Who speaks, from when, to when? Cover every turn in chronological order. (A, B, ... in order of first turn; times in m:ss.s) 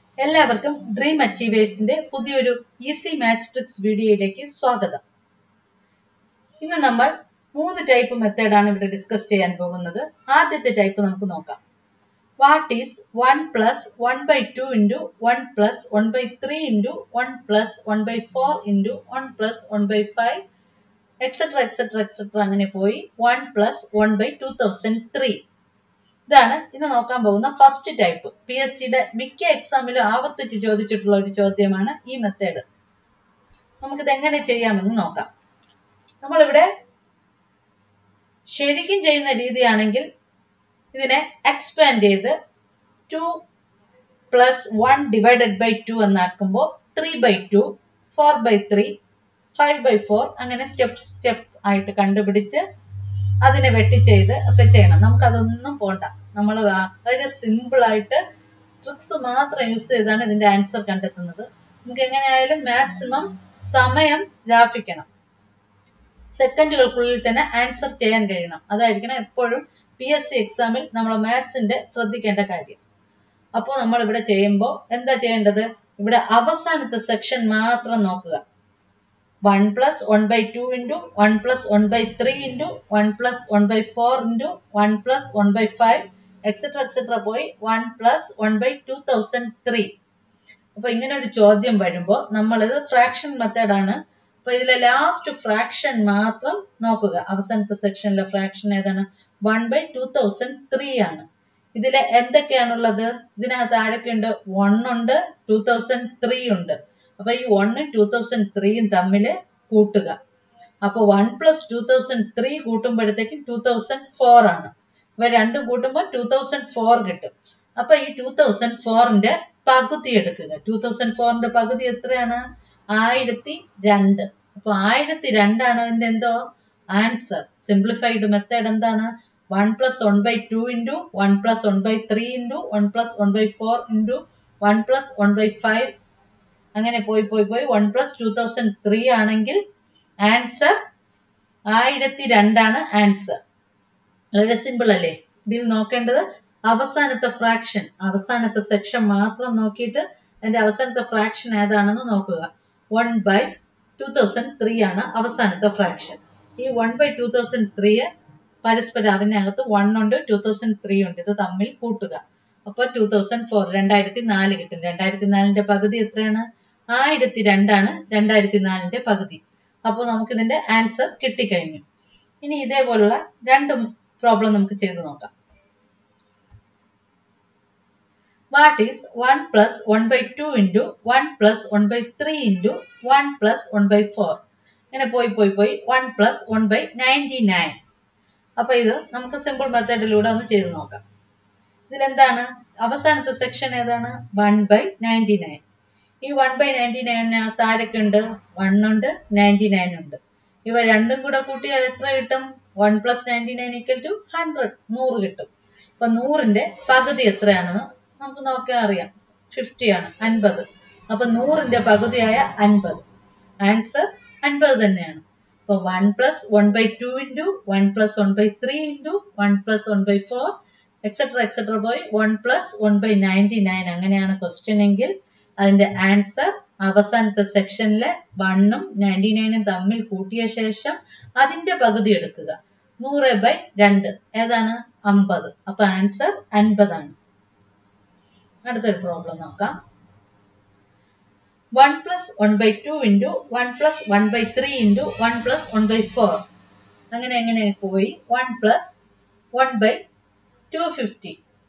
0:00.2-0:05.0 A
0:06.6-0:11.6 A
0:12.4-0:20.4 A
0:21.2-0:25.4 A
0:26.3-0:32.6 A
0:33.8-0:35.3 A
0:36.2-0:36.7 A
0:38.5-0:40.1 A
0:40.9-0:42.3 A
0:43.1-0:43.4 A
0:44.3-0:49.0 A
0:49.6-0:52.6 A
0:53.4-0:58.2 A
0:58.8-1:05.1 A
1:06.3-1:12.8 A
1:13.6-1:18.4 A
1:19.4-1:29.9 A
1:30.8-1:50.2 A
1:50.8-2:02.4 A
2:02.9-2:06.4 A
2:06.9-2:15.9 A
2:16.8-2:19.6 A
2:20.2-2:20.8 A
2:21.7-2:23.4 A
2:24.4-2:38.1 A
2:38.6-2:51.8 A
2:52.4-2:55.3 A
2:58.5-3:07.8 A
3:08.6-3:11.0 A
3:11.9-3:15.6 A
3:16.2-3:25.5 A
3:26.0-3:33.0 A
3:33.6-3:57.2 A
3:58.7-3:59.8 A
4:01.8-4:06.4 A
4:07.1-4:09.0 A
4:09.6-4:10.0 A
4:10.7-4:11.4 A